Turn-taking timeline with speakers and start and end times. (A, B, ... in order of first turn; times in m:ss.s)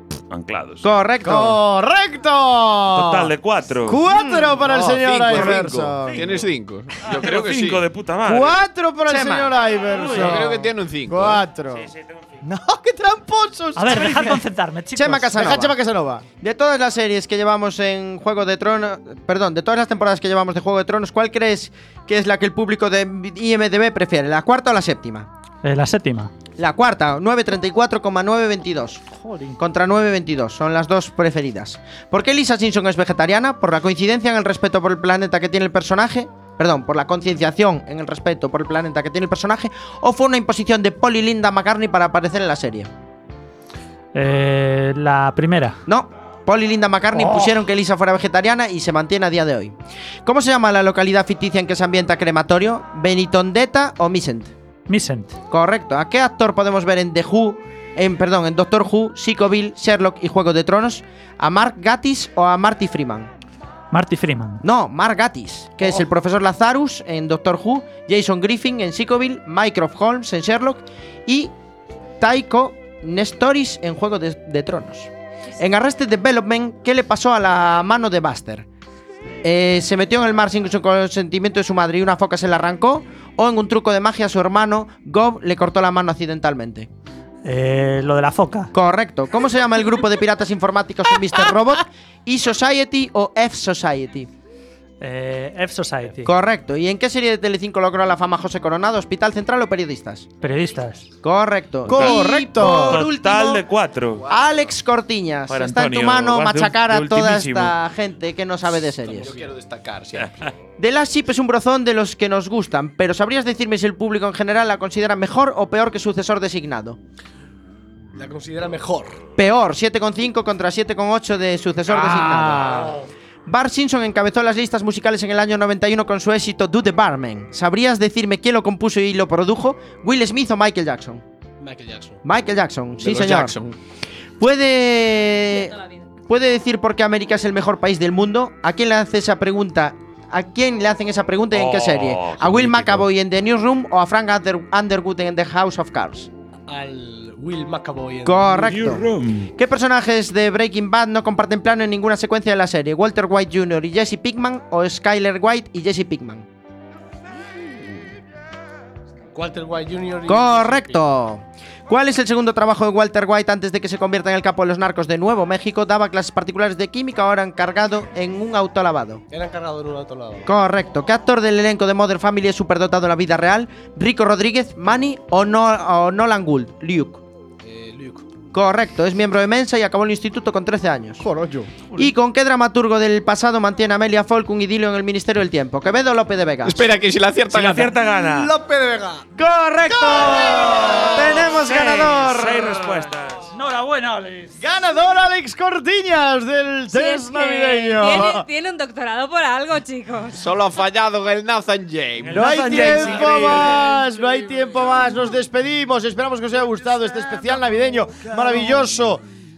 0:00.3-0:00.9 A
0:00.8-0:01.6 B
0:01.2-0:06.4 C
0:02.9-0:04.0 A
0:04.1-0:04.5 B
0:04.6-0:07.8 D
0:07.0-0:08.6 A
0:08.2-0:11.9 C
0:09.1-0:09.5 B
0:09.9-0:10.4 E
0:10.1-0:11.4 D
0:11.7-0:12.3 A
0:12.4-0:14.4 C
0:13.8-0:15.3 E
0:14.9-0:15.7 B
0:15.3-0:16.2 C
0:16.4-0:25.3 B
0:25.6-0:26.3 E
0:26.6-0:29.0 B
0:29.2-0:29.6 E
0:29.6-0:42.9 B
0:44.1-0:45.8 E
0:45.9-0:54.5 B
0:47.1-0:47.5 E
0:54.9-0:55.4 E
0:55.5-1:03.3 B
1:03.9-1:04.6 E
1:04.6-1:11.5 B
1:12.2-1:18.6 B
1:19.4-1:26.9 B
1:27.4-1:28.7 E
1:28.7-1:34.3 B
1:35.0-1:36.3 E
1:36.2-1:40.3 B
1:40.4-1:41.1 E
1:41.2-1:43.6 B
1:41.8-1:43.0 C
1:41.9-1:44.2 A
1:44.2-1:44.7 D
1:44.3-1:49.4 B
1:45.5-1:47.7 A
1:49.0-1:50.5 D
1:50.2-1:50.5 A
1:50.8-1:57.0 B
1:58.2-1:59.2 F
1:59.4-2:11.2 B
2:01.9-2:03.1 F
2:11.6-2:12.2 F
2:12.2-2:13.6 B
2:13.0-2:13.8 D
2:14.4-2:15.7 B
2:16.3-2:26.3 B
2:21.5-2:23.1 A
2:26.7-2:28.7 F
2:28.2-2:29.0 B
2:28.5-2:29.5 A
2:29.6-2:36.4 B
2:39.3-2:41.0 F
2:40.3-2:49.2 B
2:49.3-2:50.5 F
2:50.4-2:57.2 B
2:57.6-2:58.2 F
2:58.5-3:01.2 B
3:01.2-3:02.1 F
3:02.0-3:06.8 B
3:06.6-3:07.9 D
3:07.5-3:08.5 A
3:08.0-3:09.3 F
3:09.4-3:12.9 B
3:09.9-3:11.4 C
3:11.4-3:13.5 A
3:13.5-3:14.5 E
3:14.6-3:18.4 C
3:16.9-3:20.4 G
3:20.3-3:23.0 D
3:22.2-3:23.8 A
3:22.3-3:29.2 C